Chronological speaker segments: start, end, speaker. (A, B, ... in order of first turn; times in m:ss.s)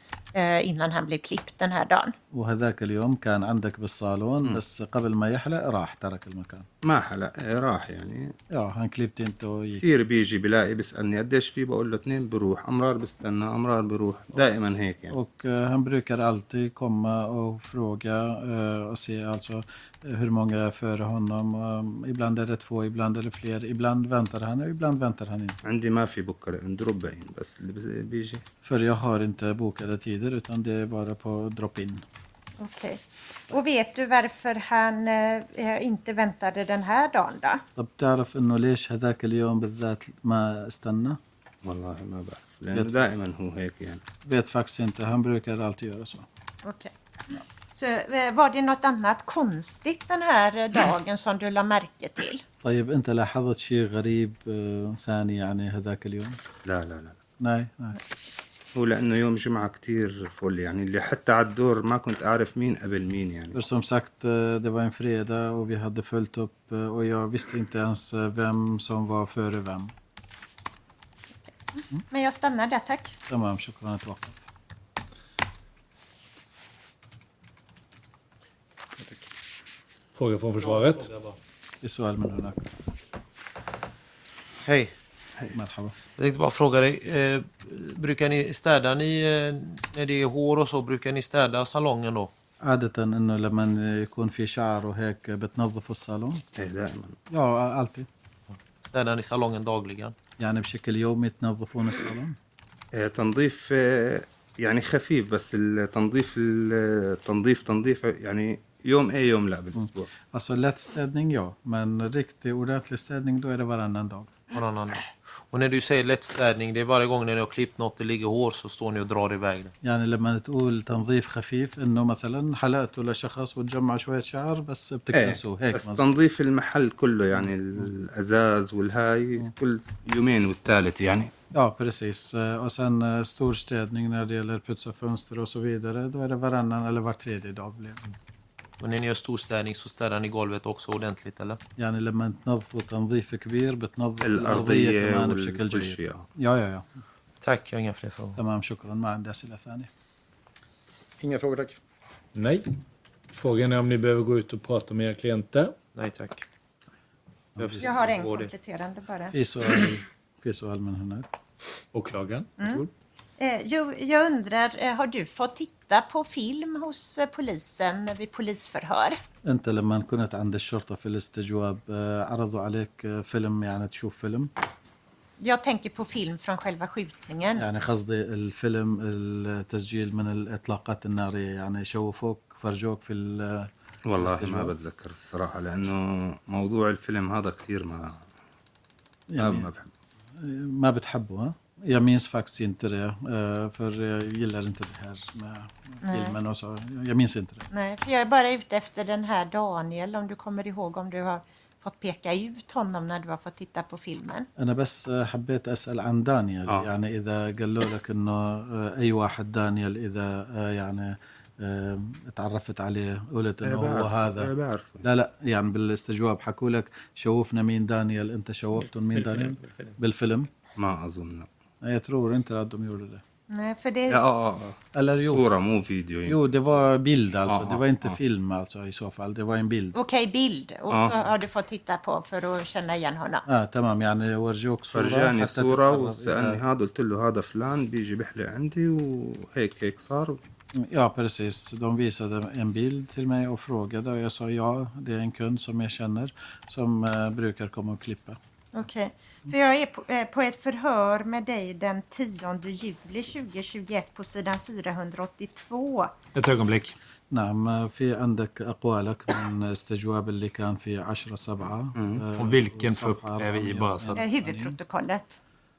0:00.3-0:02.1 A
0:02.3-0:06.7 B
0:06.8-0:08.3 C
0:08.5-0:09.8 B
0:09.8-0:15.1 C
0:15.1-0:25.6 B
0:25.6-0:28.4 C
0:28.6-0:32.0 B
0:32.6-0:37.6 A
0:37.8-0:41.2 B
0:41.6-0:44.0 C
0:42.7-0:43.0 B
0:44.2-0:46.2 B
0:46.6-0:52.4 A
0:52.6-0:56.4 B
0:56.6-0:57.2 C
0:57.4-0:58.0 B
0:58.7-1:03.6 C
1:03.5-1:09.9 B
1:11.8-1:13.2 A
1:13.3-1:14.4 B
1:19.0-1:19.3 D
1:20.2-1:21.3 E
1:21.8-1:22.7 B
1:24.6-1:24.9 D
1:25.5-1:26.0 B
1:26.2-1:32.3 D
1:32.6-1:36.4 B
1:36.5-1:37.2 C
1:37.3-1:38.1 B
1:38.8-1:40.1 D
1:40.4-1:42.4 B
1:42.9-1:50.1 C
1:49.8-1:54.5 B
1:54.5-1:59.7 D
1:59.8-2:06.0 B
2:05.1-2:11.3 C
2:11.5-2:18.1 B
2:18.8-2:21.6 D
2:21.8-2:26.8 B
2:24.2-2:26.3 C
2:27.4-2:28.4 D
2:28.4-2:29.9 B
2:31.2-2:31.8 B
2:32.3-2:32.7 E
2:33.3-2:35.8 E
2:35.9-2:36.4 D
2:37.6-2:38.0 B
2:37.6-2:38.5 D
2:37.8-2:39.3 A
2:39.3-2:41.3 B
2:41.9-2:42.8 E
2:42.6-2:42.8 A
2:43.4-2:49.2 A
2:49.4-2:54.5 B
2:55.4-2:57.6 A
2:57.6-3:04.8 B
3:04.0-3:08.2 C
3:09.3-3:09.7 B
3:09.4-3:09.9 C
3:10.4-3:17.7 B
3:16.0-3:16.4 A
3:17.7-3:24.5 A
3:24.6-3:40.5 B
3:33.6-3:35.0 C
3:39.6-3:39.9 D
3:40.8-3:41.5 C
3:41.8-3:43.2 B
3:43.5-3:44.2 A
3:44.1-3:46.6 C
3:44.9-3:45.4 B
3:46.2-3:50.0 B
3:47.4-3:48.2 C
3:49.9-3:53.4 A
3:50.9-3:51.2 C
3:53.4-3:56.6 B
3:54.9-4:00.4 C
4:00.7-4:08.4 B
4:08.7-4:16.1 A
4:16.3-4:17.0 E
4:17.3-4:24.8 B
4:21.9-4:22.2 C
4:22.3-4:24.2 E
4:24.2-4:25.4 A